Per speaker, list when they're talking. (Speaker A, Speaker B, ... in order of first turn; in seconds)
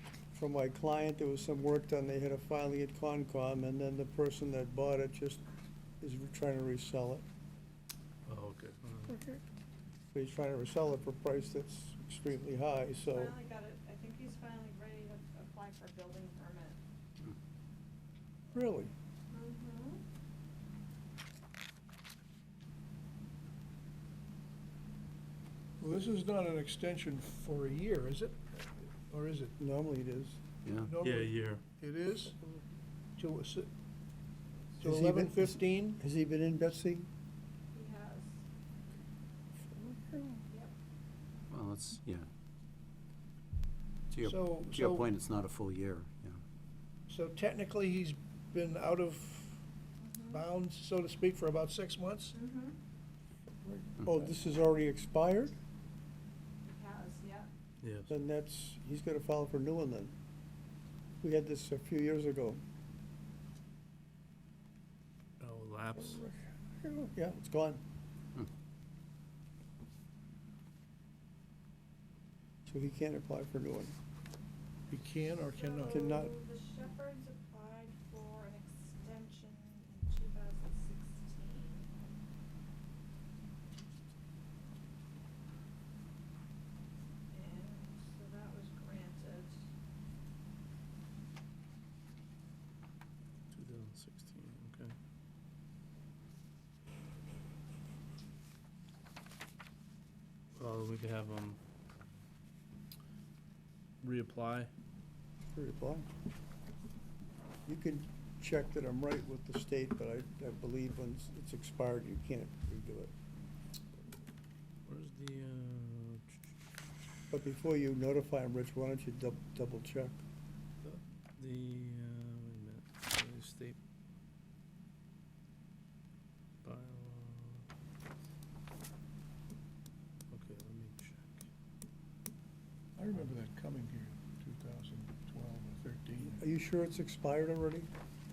Speaker A: 0.3-5.4, 6.0-7.2, 9.1-9.4, 10.1-13.3, 18.5-18.9, 29.6-30.4, 34.8-37.1, 39.7-40.4, 53.6-55.6, 58.1-60.1, 61.2-62.6, 66.0-67.8, 72.7-73.9, 75.9-76.3, 105.5-106.1, 107.7-113.1, 117.3-120.2, 136.2-137.9
Speaker B: 8.3-9.1, 31.0-31.6, 57.8-58.1, 65.4-66.2, 93.5-94.9, 100.5-101.6, 104.0-104.7, 114.8-116.3, 120.8-123.8, 126.6-127.6, 130.3-131.4
Speaker C: 13.1-16.8, 19.3-20.0, 37.7-38.4, 50.0-50.5, 52.3-52.8, 56.6-57.5, 75.5-81.9, 87.3-89.6
Speaker D: 25.8-29.5, 30.8-32.4, 33.1-33.7, 34.8-36.0, 44.2-45.0, 47.1-49.6, 50.3-52.3, 74.9-76.0, 133.0-136.4
Speaker E: 30.6-30.9, 41.5-42.3, 44.1-46.4